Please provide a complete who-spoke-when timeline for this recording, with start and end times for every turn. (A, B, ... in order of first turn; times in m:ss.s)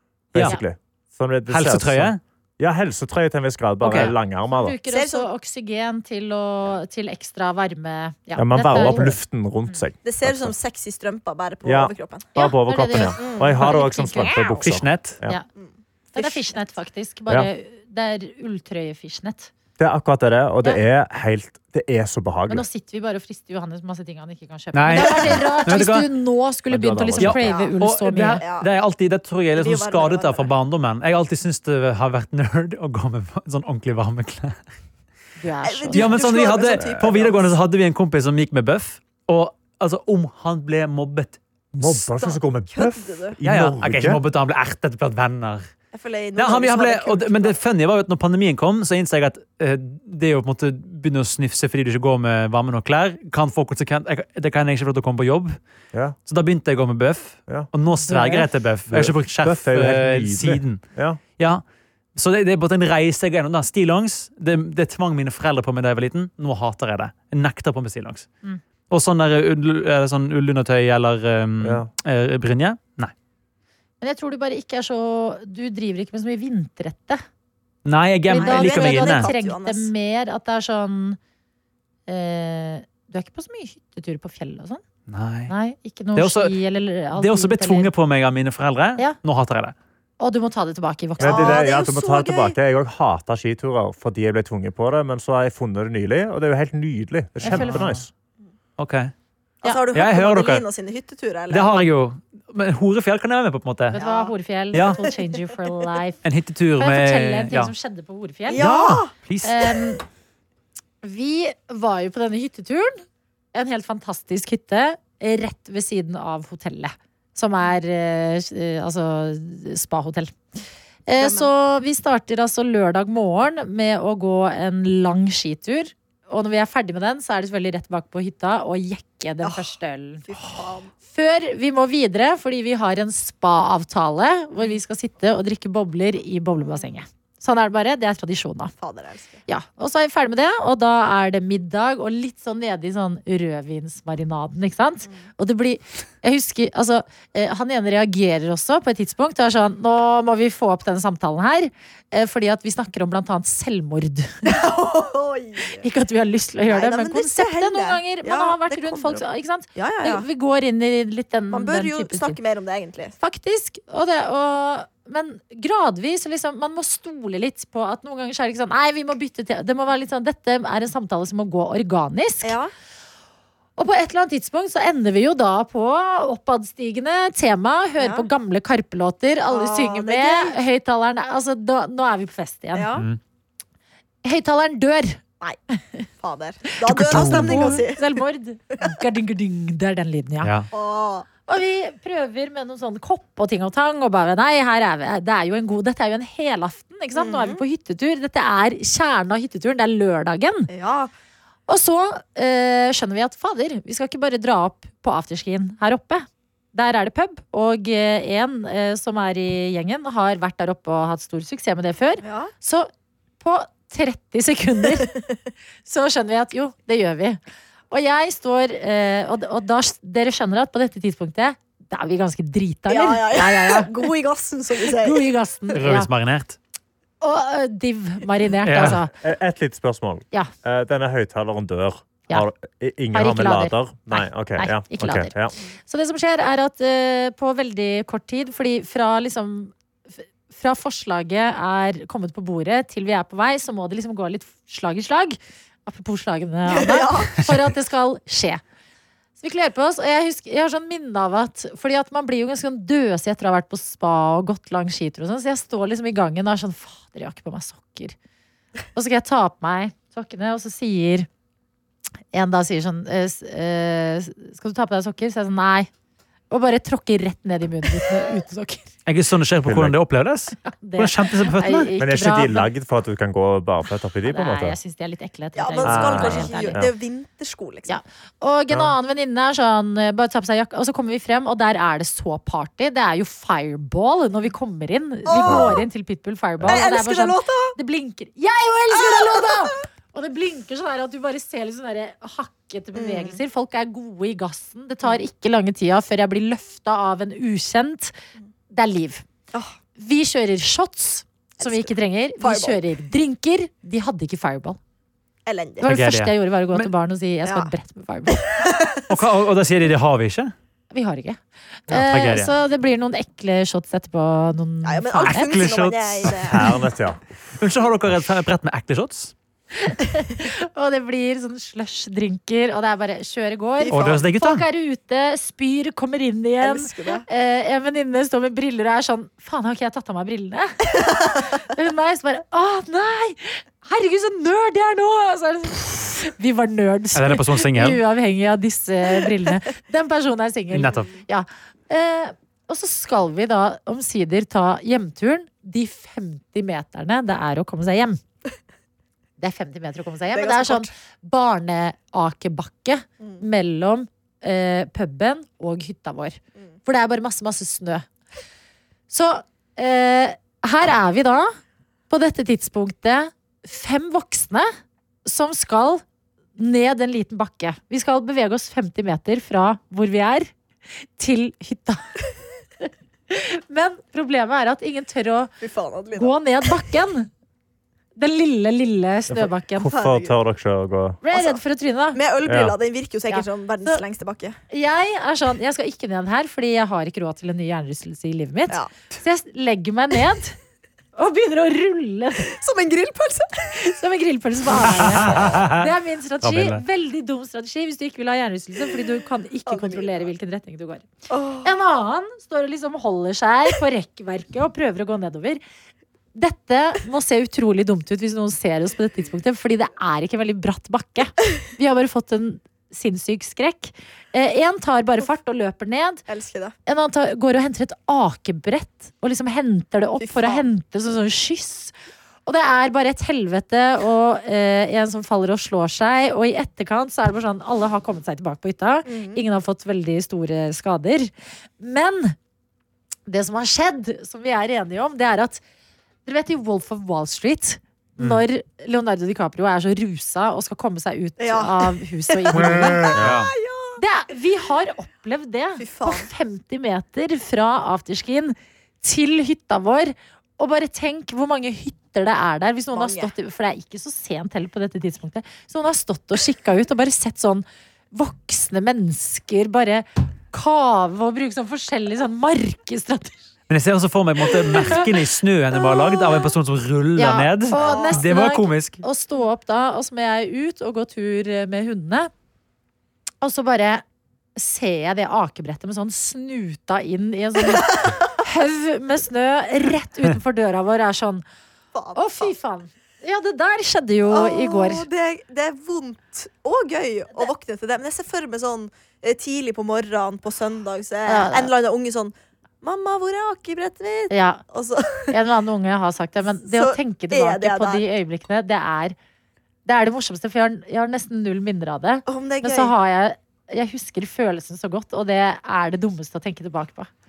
0:00.3-0:04.8 A
0:01.5-0:02.2 B
0:03.8-0:04.1 B
0:04.5-0:09.2 C
0:04.9-0:05.3 D
0:08.4-0:10.5 A
0:10.0-0:12.3 D
0:11.6-0:15.4 A
0:12.4-0:14.6 C
0:13.2-0:13.7 D
0:14.6-0:15.2 B
0:15.6-0:16.5 D
0:16.1-0:19.5 C
0:19.8-0:22.6 A
0:22.5-0:28.4 C
0:24.7-0:26.1 B
0:24.9-0:25.2 D
0:26.7-0:27.4 A
0:27.2-0:34.6 B
0:27.4-0:27.8 D
0:28.4-0:28.7 D
0:29.6-0:30.5 D
0:35.4-0:36.2 C
0:35.6-0:37.6 D
0:35.9-0:42.0 B
0:41.8-0:44.2 A
0:42.2-0:43.4 D
0:43.4-0:45.7 B
0:45.9-0:47.6 D
0:46.4-0:55.6 B
0:56.2-1:00.8 B
0:57.9-0:58.5 C
0:58.9-1:01.2 A
1:01.4-1:01.6 B
1:02.1-1:08.3 B
1:08.9-1:13.1 B
1:11.6-1:11.9 A
1:14.0-1:17.2 C
1:17.8-1:19.3 B
1:18.3-1:21.2 C
1:18.3-1:19.9 D
1:22.1-1:24.8 C
1:25.1-1:25.5 B
1:25.5-1:27.9 C
1:26.2-1:26.5 B
1:27.1-1:29.7 B
1:30.2-1:31.6 C
1:31.2-1:38.1 A
1:31.2-1:32.6 D
1:37.4-1:37.8 C
1:37.4-1:38.0 B
1:38.8-1:39.1 B
1:39.6-1:41.7 D
1:39.9-1:40.6 B
1:41.5-1:44.0 B
1:43.9-1:46.2 C
1:44.0-1:45.1 D
1:44.7-1:45.0 B
1:46.2-1:47.7 B
1:46.8-1:48.6 C
1:48.5-1:49.1 D
1:48.5-1:49.6 B
1:49.4-1:50.0 C
1:51.0-2:00.4 C
2:01.1-2:10.2 C
2:01.2-2:01.5 D
2:09.4-2:09.7 D
2:10.2-2:10.9 D
2:11.1-2:18.7 C
2:16.6-2:17.0 D
2:18.8-2:19.4 D
2:19.5-2:34.3 C
2:34.5-2:35.8 D
2:35.8-2:42.4 C
2:36.7-2:39.2 D
2:39.8-2:40.2 D
2:41.5-2:43.1 D
2:43.2-2:52.5 C
2:52.4-2:52.7 D
2:53.8-3:03.0 C
2:58.0-2:58.3 D
2:59.5-3:00.6 D
3:02.7-3:03.0 D
3:04.2-3:05.2 C
3:06.2-3:08.2 D
3:06.9-3:10.5 C
3:06.9-3:07.8 B
3:10.4-3:10.7 B
3:10.7-3:11.3 D
3:11.5-3:20.7 C
3:17.1-3:17.6 D
3:20.7-3:21.1 D
3:21.7-3:32.9 C
3:32.2-3:32.5 D
3:33.4-3:35.1 C
3:35.9-3:37.4 C
3:37.9-3:44.1 C
3:42.9-3:45.3 D
3:44.8-3:46.1 C
3:45.7-3:46.6 B
3:47.2-3:49.1 C
3:48.6-3:49.0 B
3:49.2-3:55.5 A
3:53.1-3:55.3 C
3:55.9-4:08.6 C
4:06.6-4:07.5 D
4:09.4-4:18.1 C
4:19.0-4:21.3 C
4:22.3-4:25.9 C
4:26.5-4:28.9 C
4:29.0-4:31.9 B
4:29.6-4:30.0 A
4:30.6-4:32.7 C
4:32.0-4:34.8 A
4:34.2-4:36.8 C
4:35.6-4:38.0 D
4:35.8-4:36.9 A
4:37.9-4:58.1 C
4:45.2-4:45.9 D
4:45.4-4:45.8 A
4:46.6-4:47.8 D
4:49.0-4:49.6 D
4:53.0-4:53.4 D
4:58.7-4:59.2 C
5:00.0-5:04.8 C
5:01.6-5:02.8 D
5:05.5-5:05.8 D
5:05.8-5:08.4 C
5:05.8-5:06.9 B
5:07.5-5:07.7 D
5:08.3-5:09.0 D
5:09.1-5:10.5 B
5:10.9-5:15.6 C
5:11.9-5:12.5 B
5:14.8-5:16.7 D
5:15.3-5:16.8 B
5:16.5-5:17.2 A
5:17.6-5:19.3 B
5:19.8-5:48.2 C
5:23.8-5:24.2 D
5:23.9-5:24.6 B
5:26.6-5:27.2 D
5:31.0-5:31.4 D
5:37.1-5:38.0 B
5:40.7-5:41.1 B
5:49.4-5:58.0 C
5:50.3-5:50.9 D
5:59.1-6:01.5 C
6:02.1-6:04.7 C
6:05.2-6:06.0 C
6:06.6-6:10.5 C
6:11.2-6:12.1 C
6:12.8-6:15.5 C
6:15.6-6:16.4 D
6:16.2-6:17.3 C
6:18.2-6:19.9 C
6:19.3-6:21.2 A
6:19.9-6:20.4 D
6:21.2-6:22.2 C
6:21.3-6:21.6 D
6:22.1-6:24.6 D
6:22.4-6:22.8 A
6:23.3-6:24.0 C
6:24.7-6:30.6 C
6:31.2-6:32.5 C
6:32.4-6:33.8 D
6:33.8-6:41.1 C
6:35.0-6:35.8 B
6:36.4-6:36.8 B
6:39.7-6:40.3 D
6:41.3-6:41.7 D
6:41.6-6:45.6 C
6:46.3-6:56.2 C
6:56.3-6:56.8 D
6:56.8-7:01.9 C
7:00.2-7:00.7 D
7:02.5-7:12.3 C
7:09.0-7:09.4 D
7:13.3-7:15.6 C
7:16.2-7:23.1 C
7:18.2-7:18.4 B
7:21.4-7:24.0 D
7:22.6-7:23.5 B
7:23.1-7:23.4 A
7:24.0-7:43.3 C
7:25.8-7:26.3 D
7:32.9-7:33.3 D
7:43.7-7:49.0 B
7:44.5-7:45.1 C
7:47.2-7:52.3 C
7:47.8-7:48.2 D
7:53.4-7:54.0 C
7:54.6-8:01.4 C
7:57.6-7:58.3 D
8:01.9-8:02.5 D
8:02.2-8:05.0 C
8:04.3-8:15.3 D
8:11.3-8:11.7 C
8:14.3-8:14.6 C
8:15.3-8:19.2 C
8:16.7-8:18.0 D
8:19.8-8:27.1 C
8:22.2-8:22.9 D